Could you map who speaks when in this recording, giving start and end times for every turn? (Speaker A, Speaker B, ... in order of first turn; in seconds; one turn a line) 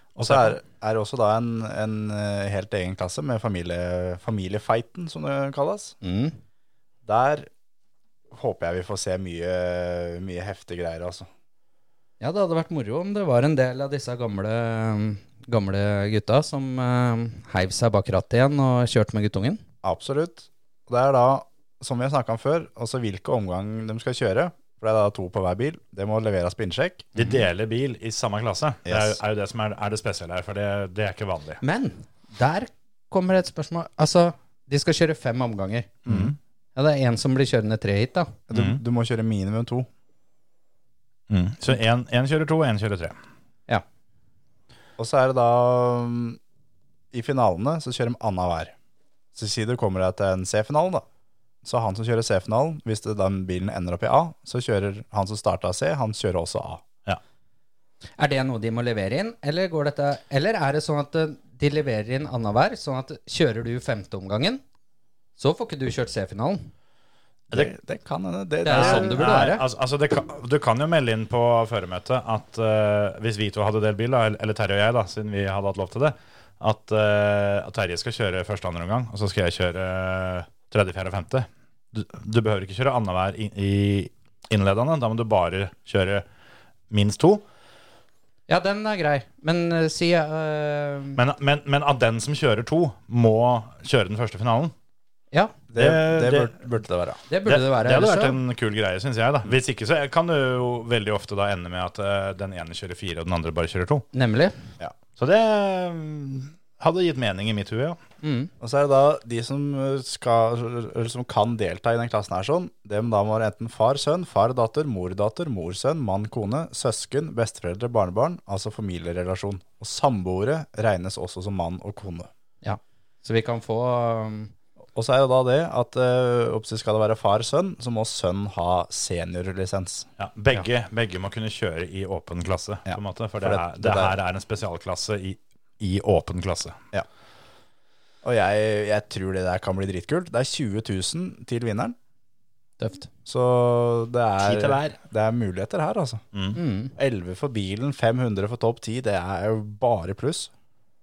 Speaker A: 0.1-6.0
Speaker B: 0.2-0.5
Speaker C: 6.0-6.3
Speaker A: 7.0-7.5
Speaker A: 8.3-11.3
Speaker C: 12.2-19.6
Speaker A: 19.8-27.2
Speaker B: 27.1-31.6
Speaker A: 28.9-29.2
Speaker C: 31.6-35.9
Speaker B: 36.1-36.3
Speaker A: 36.1-36.3
Speaker C: 36.8-38.3
Speaker A: 38.5-39.9
Speaker B: 38.5-38.8
Speaker B: 41.3-43.2
Speaker A: 45.0-46.4
Speaker A: 47.1-48.7
Speaker A: 49.3-51.0
Speaker A: 51.6-56.8
Speaker C: 58.2-64.6
Speaker C: 65.4-66.7
Speaker A: 67.5-69.2
Speaker C: 68.6-69.6
Speaker B: 68.7-86.2
Speaker B: 86.9-87.4
Speaker C: 88.5-91.2
Speaker B: 91.2-94.7
Speaker C: 95.3-95.6
Speaker A: 95.7-97.2
Speaker B: 95.8-96.5
Speaker C: 97.3-98.3
Speaker B: 97.5-104.0
Speaker C: 104.1-104.6
Speaker B: 105.2-108.0
Speaker C: 108.2-108.5
Speaker A: 108.6-122.3
Speaker C: 122.6-124.5
Speaker A: 124.9-130.1
Speaker B: 130.2-136.8
Speaker A: 132.9-134.1
Speaker A: 138.2-141.9
Speaker C: 142.8-143.1
Speaker A: 143.2-146.2
Speaker B: 144.4-144.9
Speaker C: 146.5-146.9
Speaker A: 146.9-150.5